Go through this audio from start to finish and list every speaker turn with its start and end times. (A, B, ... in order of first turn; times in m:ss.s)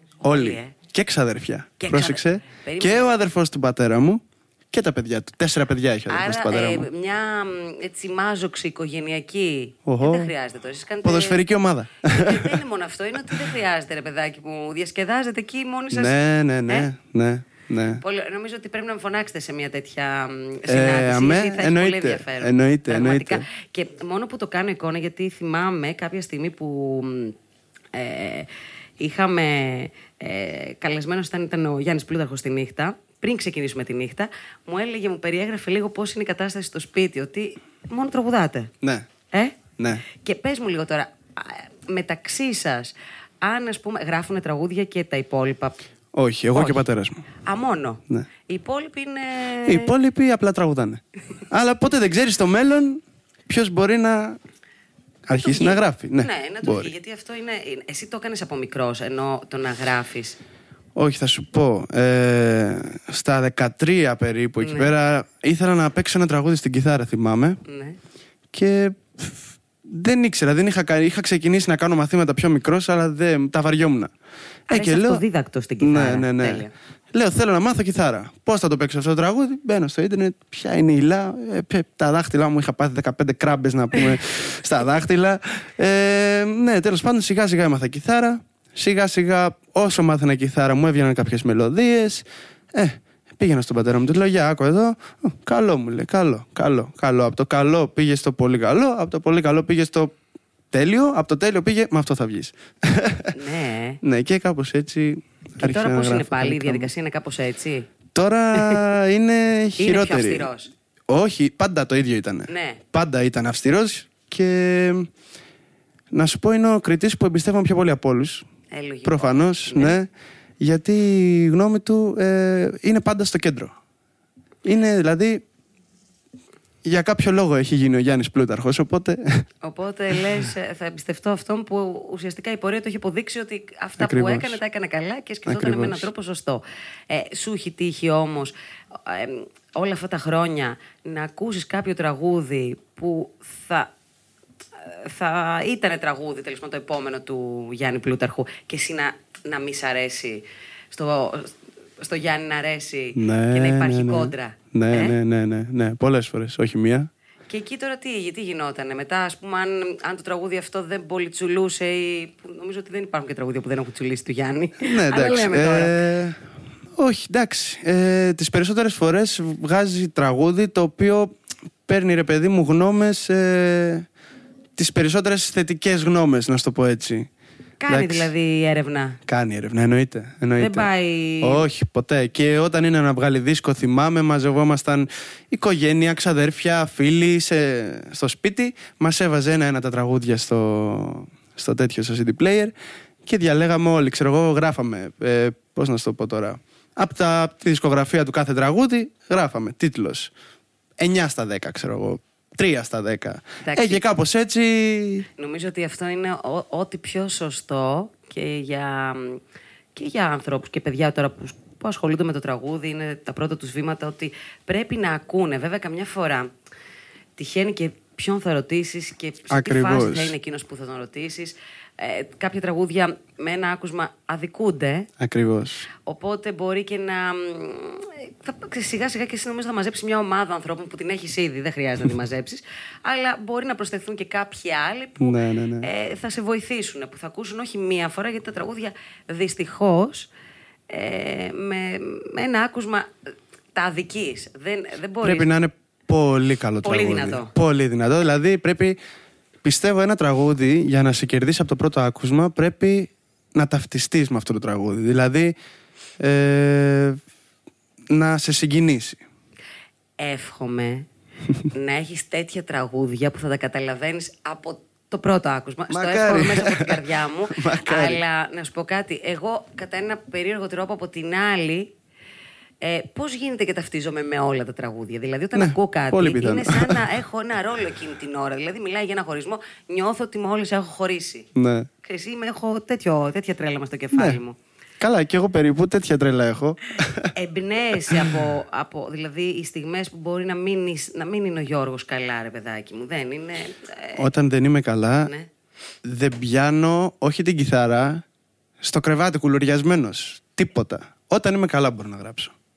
0:00.2-0:06.9 A
0:00.3-0:00.7 B
0:01.8-0:03.1 B
0:06.1-0:11.4 B
0:09.9-0:10.3 A
0:11.0-0:12.6 A
0:12.1-0:16.2 B
0:15.9-0:18.0 A
0:18.0-0:27.4 B
0:20.7-0:23.5 A
0:27.9-0:38.7 B
0:38.8-0:39.1 A
0:39.3-0:45.8 B
0:39.8-0:40.0 A
0:46.1-0:47.3 A
0:46.5-0:46.9 B
0:47.4-0:49.9 B
0:49.6-0:54.4 A
0:55.3-0:56.9 A
0:55.4-1:00.4 B
1:01.0-1:07.6 A
1:04.6-1:04.9 B
1:07.7-1:08.0 B
1:08.5-1:14.1 A
1:14.7-1:15.2 A
1:14.7-1:16.7 B
1:15.8-1:40.2 A
1:40.7-1:43.4 A
1:43.3-1:44.0 B
1:44.0-1:46.9 A
1:45.6-1:47.9 B
1:48.2-1:50.5 A
1:48.6-1:48.8 B
1:49.8-1:50.7 B
1:51.1-1:55.1 A
1:52.5-1:52.8 B
1:56.1-1:58.4 A
1:58.7-2:00.0 B
1:59.0-2:03.8 A
2:04.6-2:05.4 A
2:06.8-2:09.4 A
2:09.6-2:23.9 B
2:14.0-2:14.6 A
2:15.5-2:16.1 A
2:24.8-2:35.2 B
2:33.2-2:37.1 A
2:37.5-2:46.0 B
2:44.8-2:46.4 A
2:47.0-2:51.3 A
2:51.9-2:54.1 A
2:54.8-2:57.3 A
2:57.8-2:59.2 B
2:57.9-2:58.3 A
2:59.3-3:00.9 A
3:00.6-3:01.7 B
3:01.4-3:20.3 A
3:21.0-3:25.3 A
3:23.6-3:24.0 B
3:25.4-3:29.4 B
3:30.0-3:36.5 B
3:37.4-3:45.1 B
3:39.5-3:40.4 A
3:45.2-3:45.9 A
3:46.0-4:00.3 B
3:55.2-3:55.9 A
4:00.9-4:03.1 B
4:03.7-4:05.5 B
4:05.2-4:09.0 A
4:06.8-4:07.5 B
4:09.6-4:15.6 A
4:16.2-4:17.2 A
4:18.1-4:19.2 A
4:20.2-4:21.1 B
4:21.7-4:31.9 B
4:25.9-4:28.2 A
4:32.8-4:41.5 B
4:35.6-4:37.0 A
4:41.6-4:41.9 A
4:42.0-4:44.6 B
4:44.1-4:44.4 A
4:45.0-4:47.3 A
4:47.4-4:54.3 B
4:48.1-4:48.3 A
4:54.2-4:55.3 A
4:56.0-4:58.2 A
4:58.8-5:02.5 A